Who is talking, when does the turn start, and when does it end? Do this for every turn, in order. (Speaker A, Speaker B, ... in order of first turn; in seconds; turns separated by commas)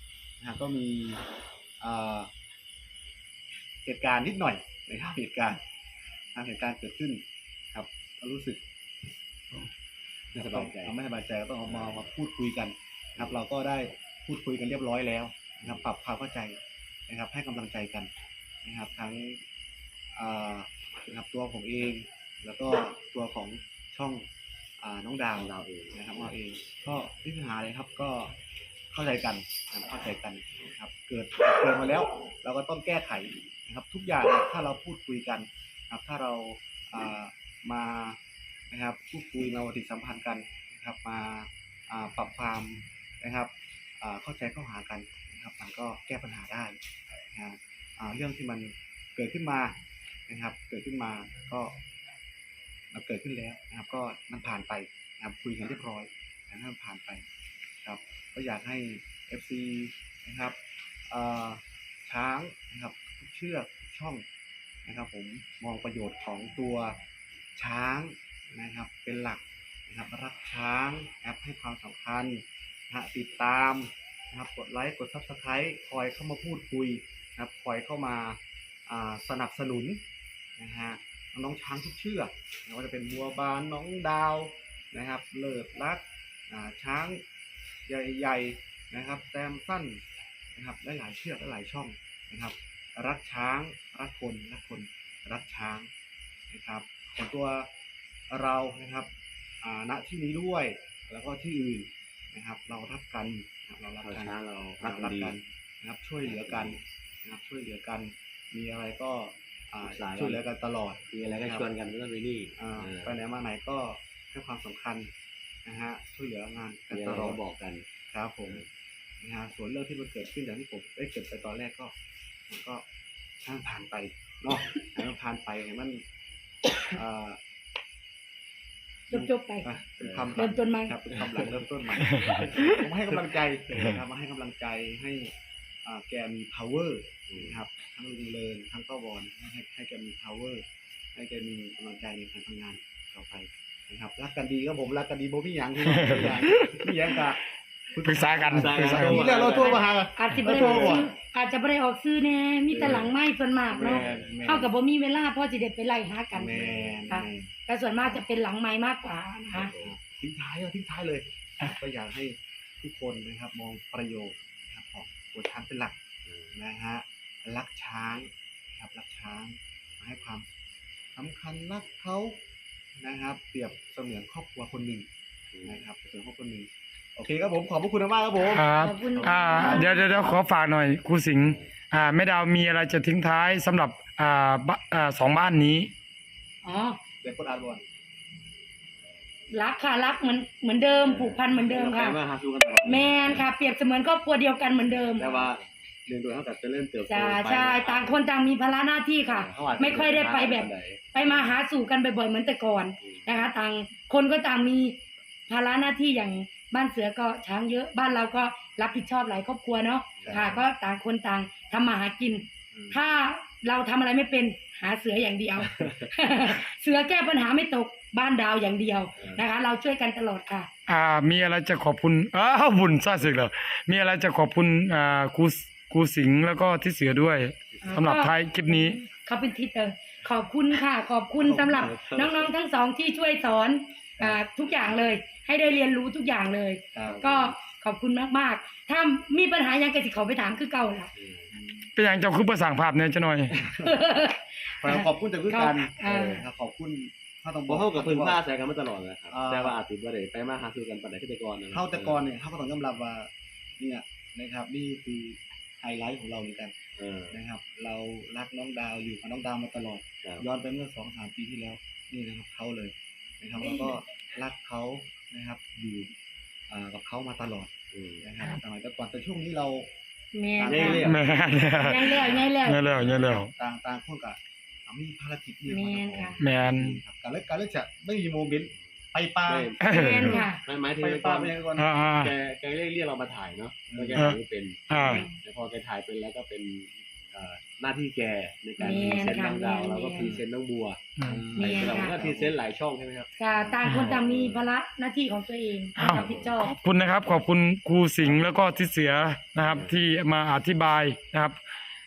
Speaker A: 0.4-1.2, Speaker A: 1.8-2.3, Speaker A: 3.8-5.6, Speaker A: 6.3-7.2, Speaker A: 7.7-8.6, Speaker B: 10.3-10.9, Speaker A: 10.4-18.1, Speaker B: 11.7-12.1, Speaker B: 13.2-13.4, Speaker A: 18.6-19.4, Speaker A: 20.1-24.3, Speaker A: 24.8-28.3, Speaker B: 25.3-26.3, Speaker A: 28.9-38.2, Speaker A: 38.7-46.8, Speaker A: 47.3-51.8, Speaker A: 52.9-57.2, Speaker A: 57.8-64.2, Speaker A: 64.8-67.0, Speaker A: 67.5-80.0, Speaker A: 80.6-87.2, Speaker A: 87.8-90.0, Speaker A: 90.5-95.9, Speaker A: 96.5-97.7, Speaker A: 98.3-99.1, Speaker A: 99.6-111.7, Speaker B: 104.0-105.3, Speaker B: 106.2-106.8, Speaker B: 109.8-110.4, Speaker B: 111.1-113.2, Speaker A: 112.5-115.1, Speaker A: 115.6-117.4, Speaker B: 116.9-117.8, Speaker A: 118.1-118.6, Speaker A: 119.2-121.9, Speaker A: 122.5-122.8, Speaker A: 123.4-126.0, Speaker A: 126.9-127.4, Speaker C: 129.1-129.6, Speaker A: 129.1-151.1, Speaker B: 130.0-130.3, Speaker C: 130.3-131.0, Speaker B: 131.1-131.5, Speaker D: 132.2-132.4, Speaker B: 132.2-132.8, Speaker B: 137.3-137.6, Speaker D: 145.8-146.9, Speaker D: 148.0-149.3, Speaker B: 148.5-149.9, Speaker C: 149.4-156.5, Speaker B: 150.6-151.0, Speaker B: 152.7-153.1, Speaker A: 152.8-153.0, Speaker A: 153.7-154.7, Speaker B: 153.7-154.4, Speaker A: 156.3-158.2, Speaker B: 156.5-157.1, Speaker C: 157.1-159.7, Speaker B: 159.5-160.0, Speaker A: 159.7-165.9, Speaker B: 166.2-166.5, Speaker A: 166.5-170.4, Speaker A: 171.1-172.4, Speaker A: 173.0-175.1, Speaker B: 175.5-175.8, Speaker A: 175.6-180.3, Speaker D: 178.5-185.9, Speaker C: 178.8-180.2, Speaker C: 186.6-187.0, Speaker A: 187.2-187.8, Speaker C: 189.5-192.2, Speaker B: 191.0-193.5, Speaker C: 192.8-195.5, Speaker B: 195.2-198.2, Speaker C: 197.1-220.7, Speaker B: 199.2-201.4, Speaker B: 203.0-203.5, Speaker B: 210.2-210.6, Speaker A: 210.3-210.5, Speaker B: 212.7-213.0, Speaker B: 219.2-219.4, Speaker D: 220.9-229.0, Speaker C: 227.8-241.1, Speaker A: 231.4-231.9, Speaker B: 231.7-232.5, Speaker A: 236.9-237.2, Speaker B: 237.0-237.6, Speaker B: 241.1-241.5, Speaker A: 241.5-241.9, Speaker D: 241.9-243.5, Speaker A: 243.5-243.9, Speaker C: 243.8-246.5, Speaker A: 244.8-248.4, Speaker B: 247.7-252.2, Speaker A: 249.3-249.8, Speaker A: 251.7-256.7, Speaker B: 256.9-257.4, Speaker A: 257.3-266.1, Speaker C: 263.6-263.9, Speaker A: 266.7-269.9, Speaker B: 267.9-268.3, Speaker C: 270.3-271.1, Speaker A: 270.6-271.2, Speaker B: 270.6-271.2, Speaker D: 271.0-273.5, Speaker C: 271.8-272.8, Speaker A: 272.9-279.7, Speaker C: 275.7-276.4, Speaker D: 276.4-277.0, Speaker B: 279.4-281.6, Speaker D: 279.8-280.4, Speaker C: 279.9-280.6, Speaker A: 280.9-281.9, Speaker D: 281.8-282.3, Speaker B: 282.1-294.6, Speaker A: 283.9-284.3, Speaker D: 284.1-285.2, Speaker C: 285.0-285.4, Speaker C: 288.8-290.4, Speaker A: 288.8-289.2, Speaker A: 290.2-290.4, Speaker D: 291.2-291.4, Speaker A: 291.2-292.6, Speaker C: 291.6-292.2, Speaker C: 293.4-296.7, Speaker D: 293.8-294.2, Speaker D: 296.0-301.6, Speaker B: 296.1-296.5, Speaker B: 299.6-299.9